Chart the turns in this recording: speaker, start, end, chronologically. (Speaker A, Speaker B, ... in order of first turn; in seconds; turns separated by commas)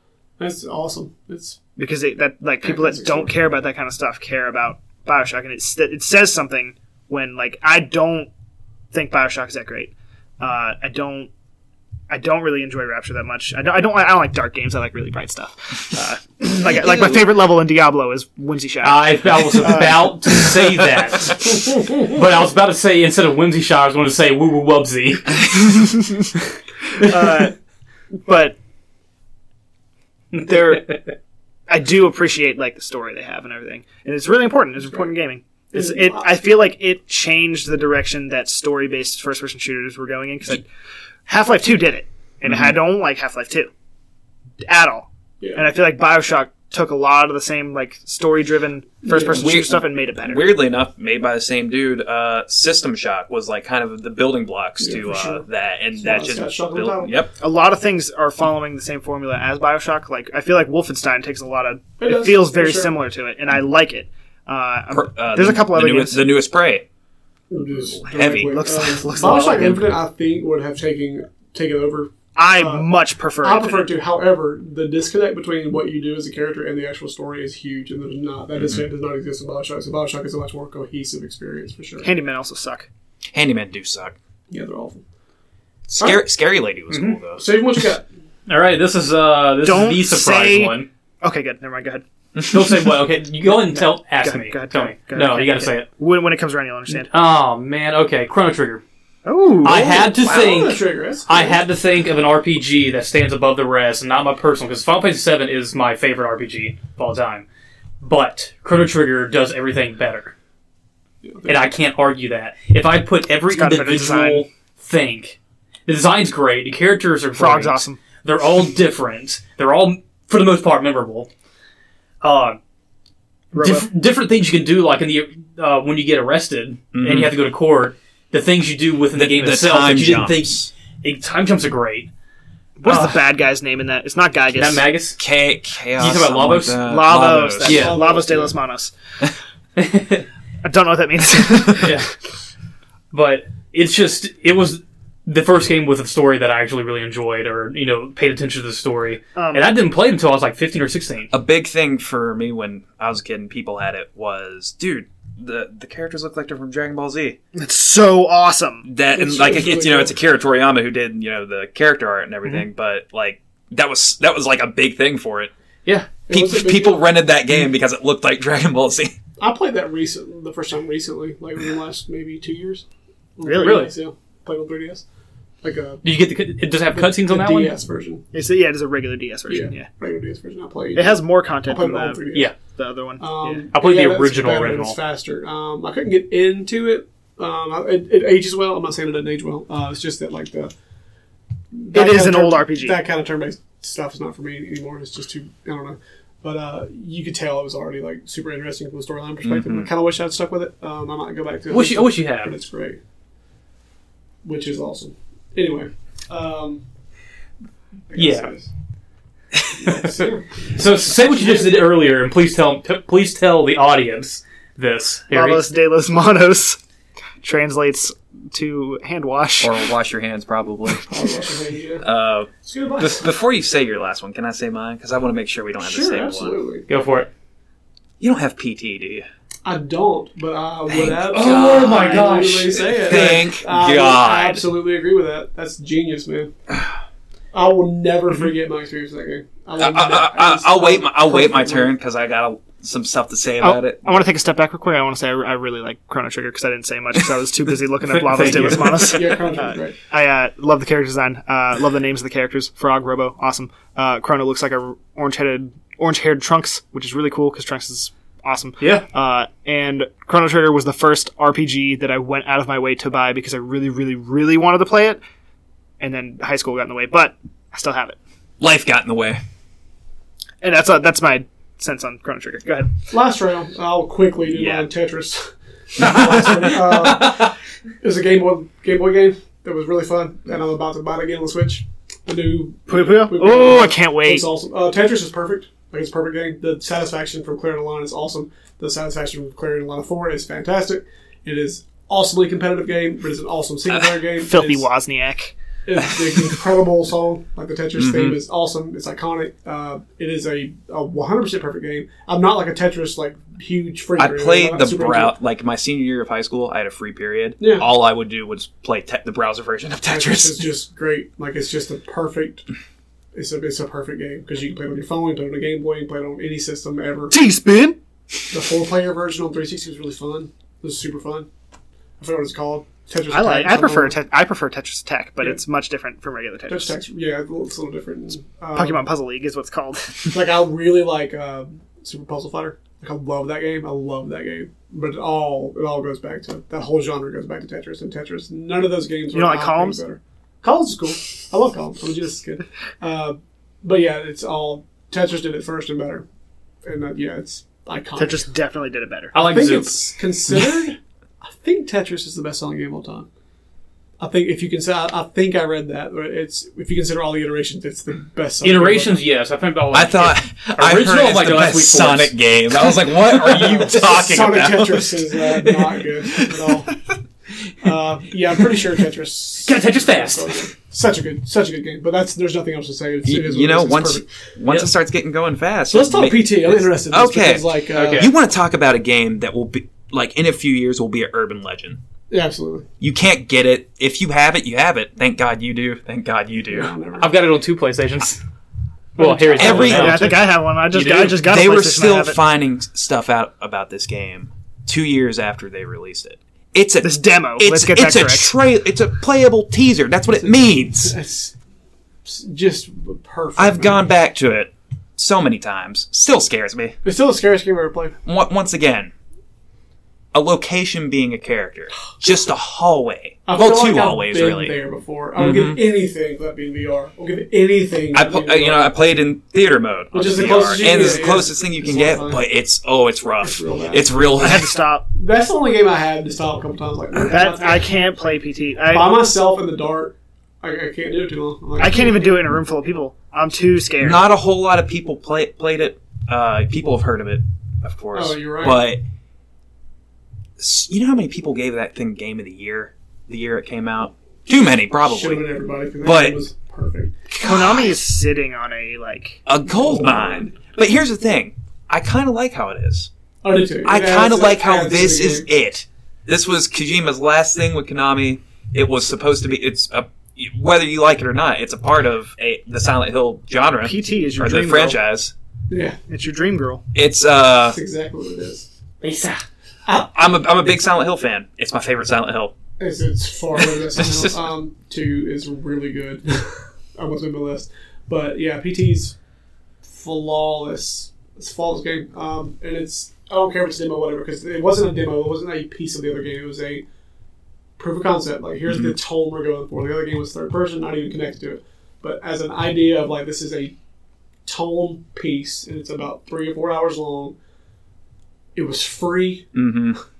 Speaker A: 0.4-1.6, Speaker B: 1.8-8.3, Speaker A: 2.6-3.3, Speaker B: 8.9-11.3, Speaker B: 12.1-20.6, Speaker C: 18.8-25.8, Speaker B: 27.0-27.6, Speaker C: 27.0-27.4, Speaker B: 28.1-28.6, Speaker B: 30.3-31.0, Speaker B: 31.7-40.6, Speaker A: 35.7-36.3, Speaker B: 41.2-43.7, Speaker D: 42.4-42.8, Speaker B: 44.6-50.5, Speaker A: 45.4-45.7, Speaker A: 49.0-49.5, Speaker D: 49.3-57.3, Speaker A: 54.8-55.4, Speaker A: 56.0-57.2, Speaker B: 57.4-66.3, Speaker A: 62.0-63.0, Speaker D: 64.9-66.8, Speaker A: 67.5-82.1, Speaker D: 67.6-69.8, Speaker B: 68.5-69.9, Speaker B: 72.3-73.9, Speaker D: 78.6-78.8, Speaker B: 82.0-82.9, Speaker D: 83.3-84.1, Speaker A: 84.5-85.0, Speaker D: 85.9-87.5, Speaker C: 86.9-87.2, Speaker A: 87.4-88.1, Speaker C: 88.5-90.9, Speaker B: 89.6-92.0, Speaker C: 92.5-95.9, Speaker B: 93.7-97.1, Speaker C: 96.9-98.8, Speaker B: 99.2-100.5, Speaker C: 99.6-107.5, Speaker A: 100.1-101.6, Speaker C: 108.0-110.3, Speaker A: 111.2-111.5, Speaker C: 111.4-121.3, Speaker B: 113.5-114.5, Speaker B: 117.3-118.0, Speaker C: 122.2-122.6, Speaker B: 123.5-123.9, Speaker C: 123.5-132.1, Speaker D: 126.9-127.3, Speaker D: 129.2-130.7, Speaker B: 132.8-134.8, Speaker C: 132.8-133.2, Speaker C: 134.5-135.2, Speaker D: 135.2-137.9, Speaker C: 136.0-136.8, Speaker B: 136.8-138.9, Speaker C: 137.6-137.9, Speaker A: 137.6-138.6, Speaker C: 139.8-140.2, Speaker B: 140.6-142.0, Speaker C: 141.8-142.1, Speaker C: 143.1-151.3, Speaker B: 149.3-149.7, Speaker D: 151.3-157.4, Speaker B: 157.5-158.9, Speaker D: 158.8-165.5, Speaker A: 159.1-160.1, Speaker A: 166.3-167.0, Speaker D: 166.3-169.1, Speaker A: 169.4-172.8, Speaker A: 173.4-175.0, Speaker B: 173.4-173.9, Speaker A: 175.6-176.0, Speaker C: 176.0-177.7, Speaker A: 176.9-178.2, Speaker B: 178.3-179.9, Speaker A: 179.5-182.5, Speaker B: 180.9-183.6, Speaker A: 183.2-190.7, Speaker C: 183.7-185.0, Speaker A: 191.7-203.0, Speaker B: 191.9-193.0, Speaker D: 199.4-199.9, Speaker C: 201.7-202.5, Speaker A: 204.4-206.8, Speaker A: 208.1-208.7, Speaker C: 208.1-208.5, Speaker A: 209.8-211.8, Speaker C: 209.8-215.6, Speaker B: 215.3-216.8, Speaker B: 217.4-219.8, Speaker D: 219.6-221.1, Speaker A: 220.9-223.3, Speaker D: 222.0-226.6, Speaker A: 225.8-226.9, Speaker C: 226.9-227.3, Speaker D: 228.2-229.3, Speaker A: 229.6-236.5, Speaker D: 230.9-232.1, Speaker C: 231.3-233.3, Speaker D: 232.9-234.6, Speaker A: 237.5-241.9, Speaker D: 239.8-244.2, Speaker B: 243.6-265.2, Speaker C: 248.1-249.1, Speaker A: 248.4-249.9, Speaker C: 258.8-259.1, Speaker B: 266.0-268.2, Speaker D: 268.6-269.4, Speaker B: 270.6-272.9, Speaker A: 273.1-294.9, Speaker B: 274.5-274.9, Speaker B: 282.9-284.5, Speaker D: 293.9-294.2, Speaker B: 294.4-295.5, Speaker A: 295.9-305.3, Speaker D: 297.9-298.4, Speaker D: 304.2-310.6, Speaker A: 307.6-307.9, Speaker A: 310.0-312.7, Speaker A: 313.3-317.4, Speaker B: 317.3-318.0, Speaker A: 318.5-321.5, Speaker A: 322.2-324.2, Speaker B: 323.3-326.9, Speaker A: 326.7-329.1, Speaker B: 328.7-330.3, Speaker A: 330.3-346.2, Speaker B: 339.3-340.0, Speaker A: 346.8-348.5, Speaker B: 348.2-349.4, Speaker C: 349.3-350.1, Speaker A: 349.4-353.3, Speaker A: 354.2-359.2, Speaker C: 358.6-363.9, Speaker D: 359.9-365.3, Speaker A: 363.5-366.9, Speaker D: 366.2-366.8, Speaker A: 367.8-374.3, Speaker C: 369.6-370.6, Speaker D: 373.2-382.0, Speaker C: 374.7-374.9, Speaker A: 375.9-378.3, Speaker C: 377.9-378.3, Speaker A: 382.3-382.9, Speaker D: 383.0-386.9, Speaker A: 386.7-387.3, Speaker C: 387.2-388.4, Speaker A: 389.2-390.4, Speaker C: 389.2-391.4, Speaker B: 389.4-392.4, Speaker D: 389.6-390.2, Speaker D: 391.4-401.1, Speaker B: 397.0-398.5, Speaker A: 400.3-401.5, Speaker A: 402.2-404.1, Speaker D: 403.6-407.0, Speaker A: 407.0-408.2, Speaker D: 408.2-409.1, Speaker D: 410.3-414.7, Speaker A: 413.4-418.9, Speaker D: 415.4-415.8, Speaker D: 418.1-424.7, Speaker A: 420.1-422.4, Speaker A: 423.4-424.6, Speaker B: 424.4-425.1, Speaker A: 425.1-428.0, Speaker B: 427.2-429.1, Speaker A: 428.9-432.4, Speaker B: 431.8-434.3, Speaker D: 434.0-439.0, Speaker A: 438.1-438.8, Speaker D: 440.6-445.4, Speaker A: 445.1-447.1, Speaker D: 446.0-446.4, Speaker D: 447.3-447.9, Speaker B: 447.4-449.4, Speaker D: 449.4-453.1, Speaker A: 449.6-450.6, Speaker A: 453.4-455.5, Speaker D: 453.8-465.3, Speaker B: 463.8-465.0, Speaker A: 465.7-466.0, Speaker B: 466.1-466.8, Speaker D: 466.9-467.8, Speaker A: 467.7-468.7, Speaker B: 469.0-469.4, Speaker A: 469.9-470.1, Speaker D: 470.1-472.6, Speaker A: 472.8-479.1, Speaker A: 479.8-486.8, Speaker A: 487.8-493.7, Speaker A: 494.4-497.4, Speaker A: 498.5-499.5, Speaker D: 499.5-500.0